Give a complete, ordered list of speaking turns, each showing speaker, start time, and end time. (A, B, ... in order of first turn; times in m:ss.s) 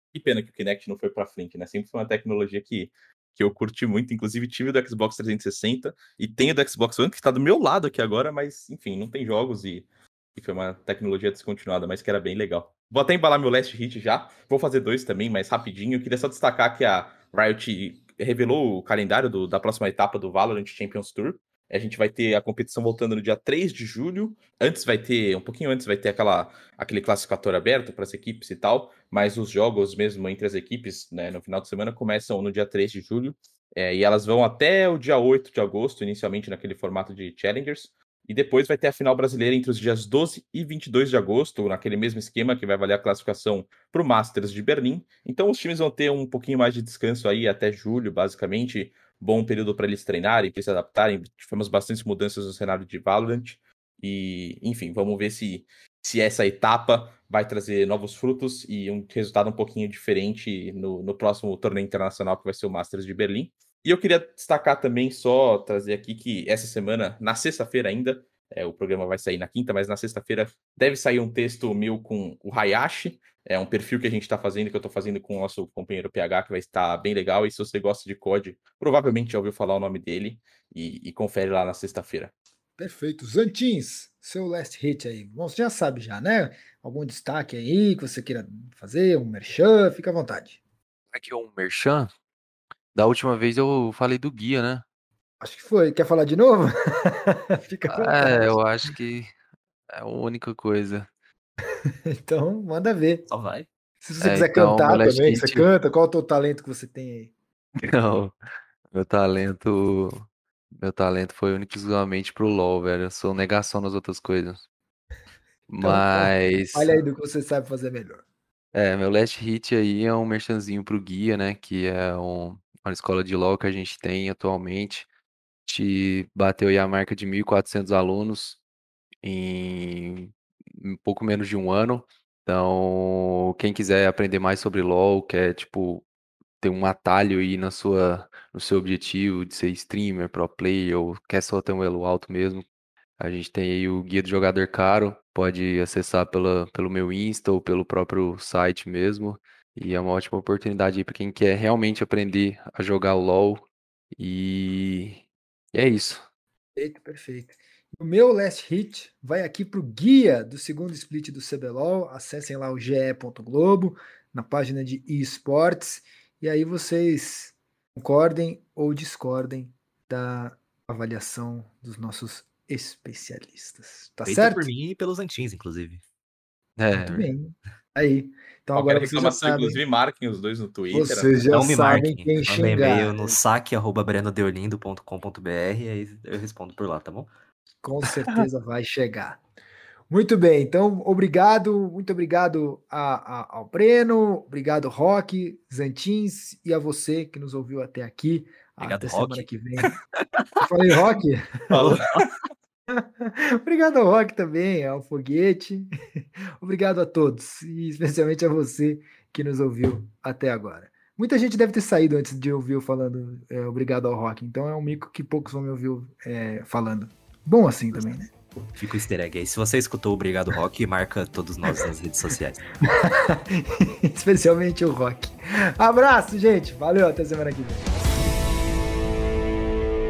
0:00.1-1:22.3 A
1:22.8-1:30.6 B
1:31.1-1:32.1 C
1:32.9-1:34.8 C
1:35.4-1:38.6 B
1:37.9-1:39.3 C
1:39.9-1:41.1 C
1:42.1-1:43.2 B
1:43.3-1:43.7 D
1:44.0-1:47.3 B
1:44.2-1:45.7 C
1:47.9-1:48.3 C
1:48.9-1:50.2 C
1:50.8-1:54.7 C
1:55.7-1:57.0 C
1:55.8-1:58.2 B
1:58.7-2:05.1 C
2:05.7-2:08.6 C
2:09.2-2:16.0 C
2:16.6-2:22.6 C
2:23.2-2:33.6 C
2:34.2-2:35.2 C
2:35.7-2:36.2 C
2:36.8-2:54.7 B
2:54.2-2:56.0 D
2:56.8-2:57.3 C
2:56.9-2:59.8 B
2:58.8-3:01.3 A
3:00.9-3:03.4 B
3:01.5-3:07.3 D
3:07.8-3:09.4 B
3:10.1-3:19.9 B
3:18.8-3:19.5 D
3:20.6-3:22.0 B
3:21.7-3:22.2 A
3:21.7-3:22.3 D
3:22.9-3:25.9 B
3:26.6-3:38.3 B
3:38.7-3:42.7 D
3:42.8-3:47.9 B